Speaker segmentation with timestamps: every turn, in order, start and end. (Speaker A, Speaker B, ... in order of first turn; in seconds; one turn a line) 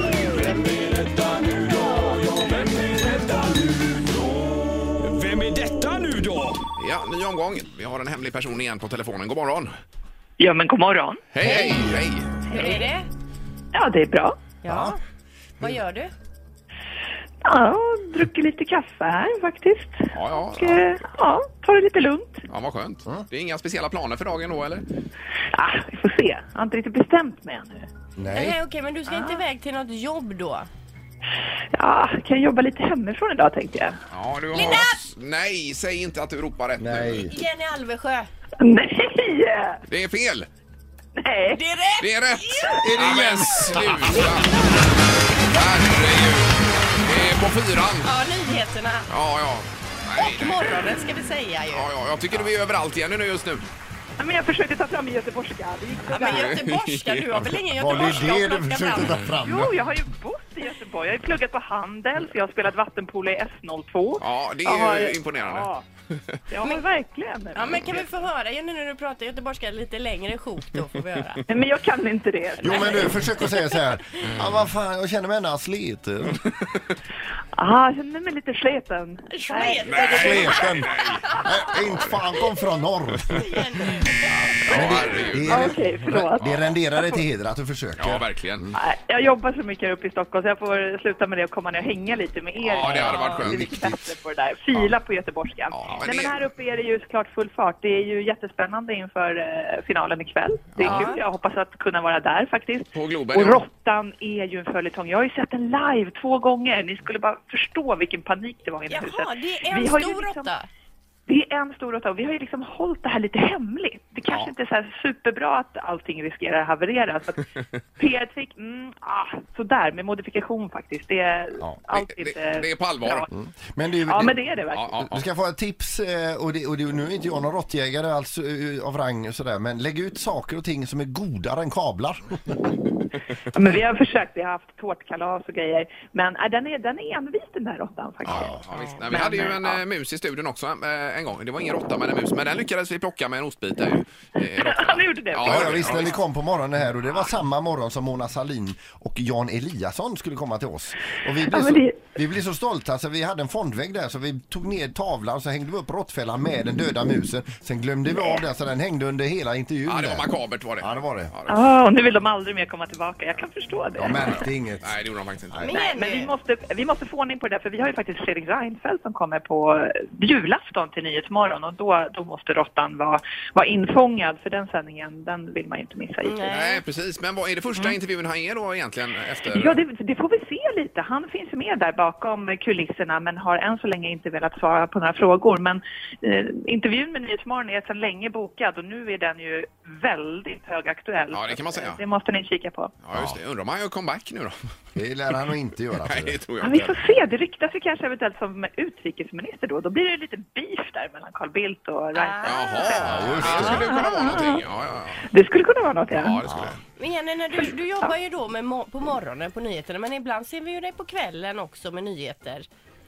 Speaker A: 0.2-0.8
Speaker B: 0.4-4.4
Speaker B: 5.0-6.6
Speaker C: 6.8-9.7
Speaker D: 10.4-11.6
Speaker C: 11.3-12.3
Speaker E: 11.4-11.8
Speaker D: 12.5-12.9
Speaker A: 12.5-13.1
Speaker D: 13.7-14.4
Speaker A: 14.6-15.0
Speaker A: 15.6-16.1
Speaker D: 17.4-22.4
Speaker C: 20.1-20.9
Speaker C: 22.5-24.9
Speaker D: 25.5-27.9
Speaker E: 28.2-28.6
Speaker A: 28.3-30.7
Speaker D: 29.1-29.4
Speaker D: 31.7-34.0
Speaker C: 34.1-37.3
Speaker A: 34.5-35.1
Speaker E: 36.8-37.3
Speaker A: 37.2-38.3
Speaker D: 38.6-39.8
Speaker C: 39.9-40.5
Speaker D: 41.2-41.6
Speaker A: 41.5-42.8
Speaker C: 42.0-44.6
Speaker E: 42.8-44.3
Speaker C: 45.5-48.1
Speaker A: 48.0-49.0
Speaker C: 49.1-50.7
Speaker A: 50.2-51.9
Speaker C: 51.7-53.6
Speaker D: 54.2-56.5
Speaker A: 56.1-59.2
Speaker C: 56.3-58.2
Speaker E: 57.8-59.7
Speaker D: 59.4-65.8
Speaker C: 64.2-65.7
Speaker D: 66.5-68.1
Speaker A: 67.5-71.4
Speaker D: 71.5-73.2
Speaker E: 72.6-76.4
Speaker A: 72.6-73.5
Speaker C: 74.2-74.7
Speaker D: 77.5-81.3
Speaker A: 79.3-80.6
Speaker C: 79.8-82.2
Speaker E: 80.0-83.5
Speaker A: 83.3-84.2
Speaker C: 84.3-85.8
Speaker E: 84.7-88.7
Speaker D: 85.5-87.2
Speaker C: 86.4-86.8
Speaker C: 88.0-88.7
Speaker D: 88.7-110.5
Speaker C: 92.6-94.0
Speaker A: 92.9-93.4
Speaker C: 95.7-96.4
Speaker A: 100.8-101.2
Speaker C: 102.9-103.6
Speaker A: 108.9-110.7
Speaker D: 111.3-117.4
Speaker D: 118.0-123.3
Speaker C: 121.9-123.3
Speaker E: 123.3-132.7
Speaker D: 124.0-124.9
Speaker C: 124.7-125.2
Speaker D: 133.5-139.8
Speaker C: 138.2-146.2
Speaker D: 144.4-146.1
Speaker E: 145.4-160.3
Speaker D: 151.5-152.0
Speaker D: 158.1-158.4
Speaker C: 159.8-161.7
Speaker E: 160.8-161.3
Speaker D: 161.5-164.5
Speaker E: 164.0-164.9
Speaker C: 164.0-165.7
Speaker A: 165.6-166.3
Speaker D: 165.7-176.4
Speaker A: 176.2-176.8
Speaker C: 176.5-179.8
Speaker D: 179.5-192.9
Speaker C: 191.3-192.0
Speaker C: 193.0-194.5
Speaker E: 194.9-196.4
Speaker C: 196.0-197.0
Speaker D: 196.6-204.6
Speaker A: 202.1-204.0
Speaker C: 202.4-205.3
Speaker E: 202.9-203.9
Speaker D: 205.2-206.4
Speaker C: 206.1-206.8
Speaker E: 206.4-206.8
Speaker A: 206.9-212.7